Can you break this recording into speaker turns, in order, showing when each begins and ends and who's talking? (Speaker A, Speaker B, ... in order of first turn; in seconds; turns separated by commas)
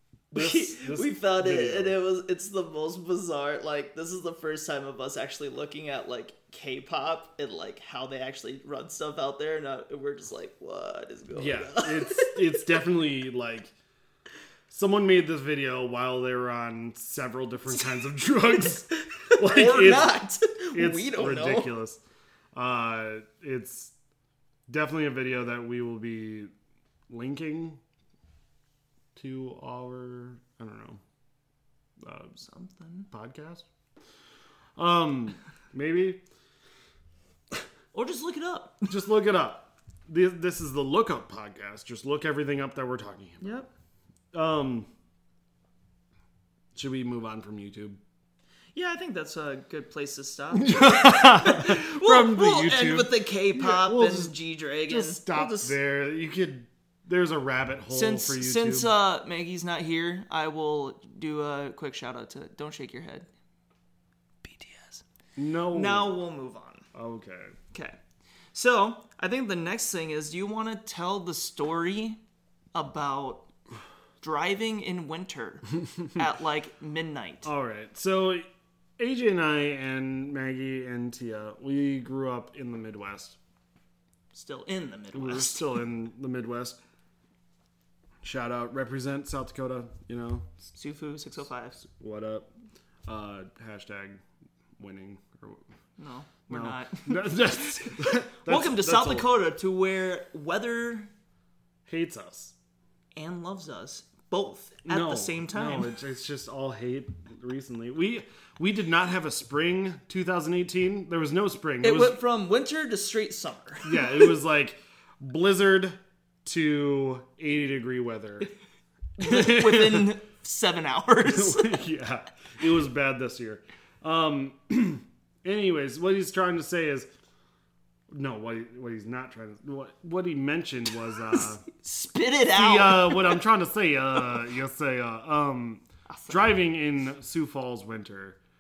Speaker A: 0.3-2.0, Speaker B: 0.3-12.7, Speaker A: 11.3-13.7, Speaker A: 14.7-22.0, Speaker B: 18.9-21.7, Speaker A: 22.5-23.9, Speaker A: 24.7-26.5, Speaker A: 27.1-27.8, Speaker A: 29.1-31.0, Speaker A: 32.0-32.4, Speaker B: 32.4-33.1, Speaker A: 33.1-33.7, Speaker A: 34.8-36.2, Speaker B: 37.9-38.9, Speaker A: 38.9-43.5, Speaker B: 43.4-43.7, Speaker A: 44.3-44.9, Speaker A: 46.8-48.0, Speaker B: 48.8-55.8, Speaker A: 50.5-58.9, Speaker B: 57.9-63.3, Speaker B: 64.4-65.0, Speaker A: 65.4-66.2, Speaker B: 65.7-66.9, Speaker A: 66.9-67.5, Speaker B: 68.5-72.2, Speaker B: 72.7-73.5, Speaker B: 74.2-77.5, Speaker A: 77.4-78.5, Speaker A: 79.0-83.4, Speaker B: 84.3-85.8, Speaker A: 85.1-86.8, Speaker A: 88.2-90.7, Speaker B: 90.7-91.8, Speaker A: 91.8-92.5, Speaker A: 93.1-94.2, Speaker A: 94.8-95.7, Speaker B: 96.0-101.1, Speaker A: 96.5-99.3, Speaker A: 101.9-102.5, Speaker B: 103.2-106.0, Speaker A: 104.8-112.2, Speaker B: 111.8-114.3, Speaker A: 113.8-118.5, Speaker B: 119.2-121.8, Speaker A: 119.2-120.2, Speaker A: 121.2-127.1, Speaker A: 128.1-131.7, Speaker B: 131.3-133.4, Speaker A: 132.5-138.4, Speaker B: 136.1-136.5